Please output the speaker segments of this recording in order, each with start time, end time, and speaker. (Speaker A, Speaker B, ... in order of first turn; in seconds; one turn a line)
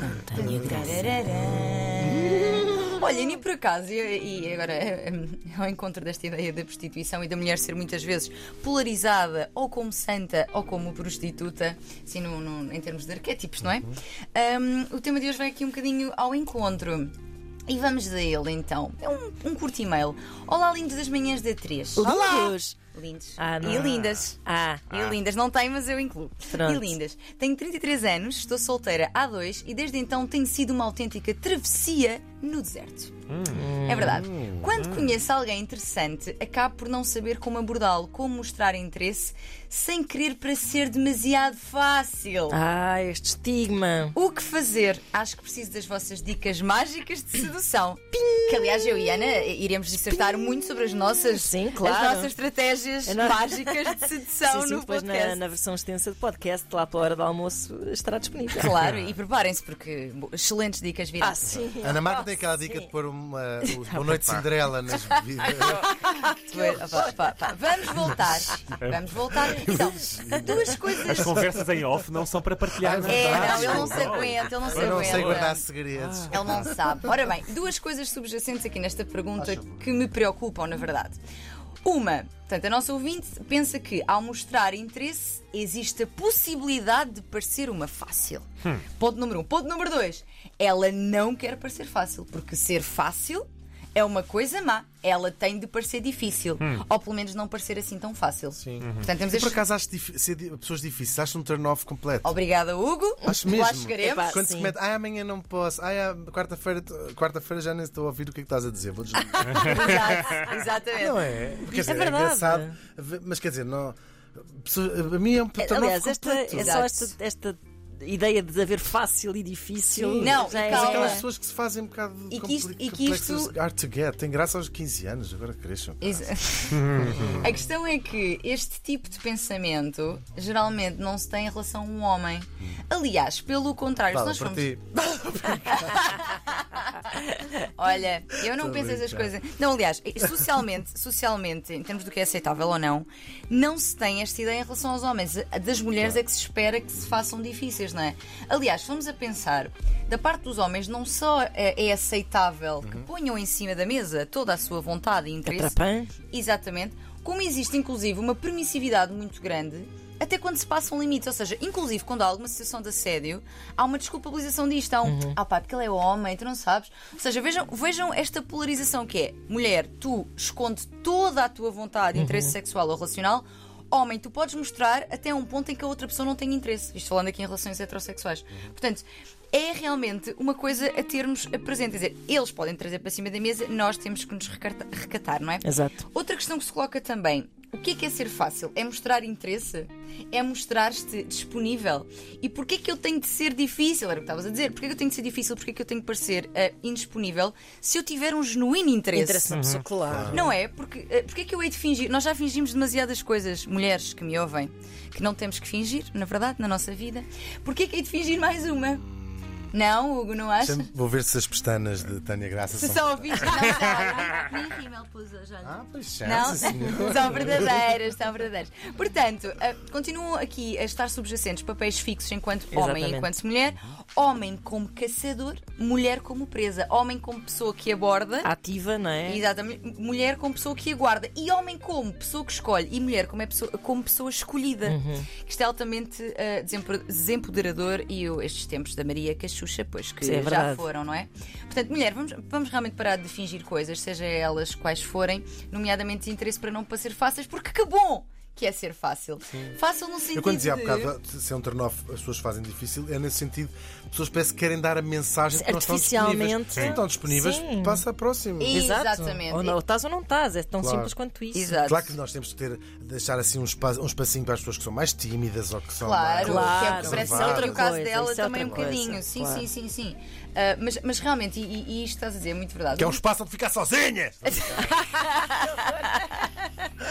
Speaker A: 0.3-17.1
Speaker A: 17.7-22.2
Speaker B: 22.0-22.8
Speaker A: 22.9-24.4
Speaker B: 23.4-24.9
Speaker C: 23.6-24.1
Speaker A: 24.9-33.2
Speaker C: 24.9-25.2
Speaker B: 26.5-27.0
Speaker C: 33.3-33.6
Speaker B: 33.5-34.2
Speaker A: 33.8-42.6
Speaker D: 34.2-34.7
Speaker C: 34.8-35.2
Speaker B: 42.5-44.2
Speaker A: 44.1-55.4
Speaker B: 48.5-49.1
Speaker B: 51.3-52.3
Speaker B: 53.0-58.8
Speaker A: 58.5-61.7
Speaker C: 58.8-59.1
Speaker B: 61.2-62.9
Speaker D: 61.8-65.9
Speaker B: 63.6-64.2
Speaker A: 65.6-71.5
Speaker B: 65.6-67.1
Speaker C: 68.8-69.1
Speaker D: 69.4-70.7
Speaker C: 71.0-75.5
Speaker D: 72.8-76.8
Speaker A: 73.1-75.6
Speaker C: 76.0-76.3
Speaker A: 76.3-81.2
Speaker D: 79.4-79.9
Speaker A: 81.8-99.6
Speaker D: 98.6-102.3
Speaker C: 98.8-99.1
Speaker A: 102.2-104.3
Speaker D: 103.2-109.9
Speaker B: 104.0-104.7
Speaker B: 109.3-109.7
Speaker C: 109.5-109.9
Speaker A: 109.6-111.8
Speaker D: 111.0-116.8
Speaker B: 111.7-112.8
Speaker B: 115.6-121.3
Speaker A: 116.5-117.1
Speaker D: 120.0-126.3
Speaker A: 120.2-121.2
Speaker A: 122.3-123.6
Speaker A: 126.0-155.8
Speaker C: 126.8-127.3
Speaker D: 127.0-127.4
Speaker D: 134.1-135.6
Speaker D: 138.5-139.3
Speaker B: 155.5-156.1
Speaker A: 156.3-199.6
Speaker B: 165.1-165.4
Speaker B: 172.2-172.5
Speaker B: 185.6-186.0
Speaker B: 199.1-200.5
Speaker C: 199.5-199.8
Speaker D: 200.1-200.5
Speaker A: 200.3-209.1
Speaker A: 209.7-210.9
Speaker D: 210.6-213.8
Speaker A: 212.8-228.5
Speaker D: 215.6-217.8
Speaker B: 222.7-223.3
Speaker B: 228.4-229.4
Speaker A: 229.3-251.1
Speaker B: 234.8-235.3
Speaker B: 240.2-240.9
Speaker D: 250.3-258.8
Speaker B: 255.5-258.1
Speaker A: 258.6-259.8
Speaker B: 258.7-261.9
Speaker D: 260.8-261.1
Speaker A: 261.5-262.2
Speaker D: 261.9-267.9
Speaker A: 266.0-273.2
Speaker B: 266.4-269.7
Speaker D: 268.6-268.8
Speaker D: 273.0-275.0
Speaker A: 274.6-276.7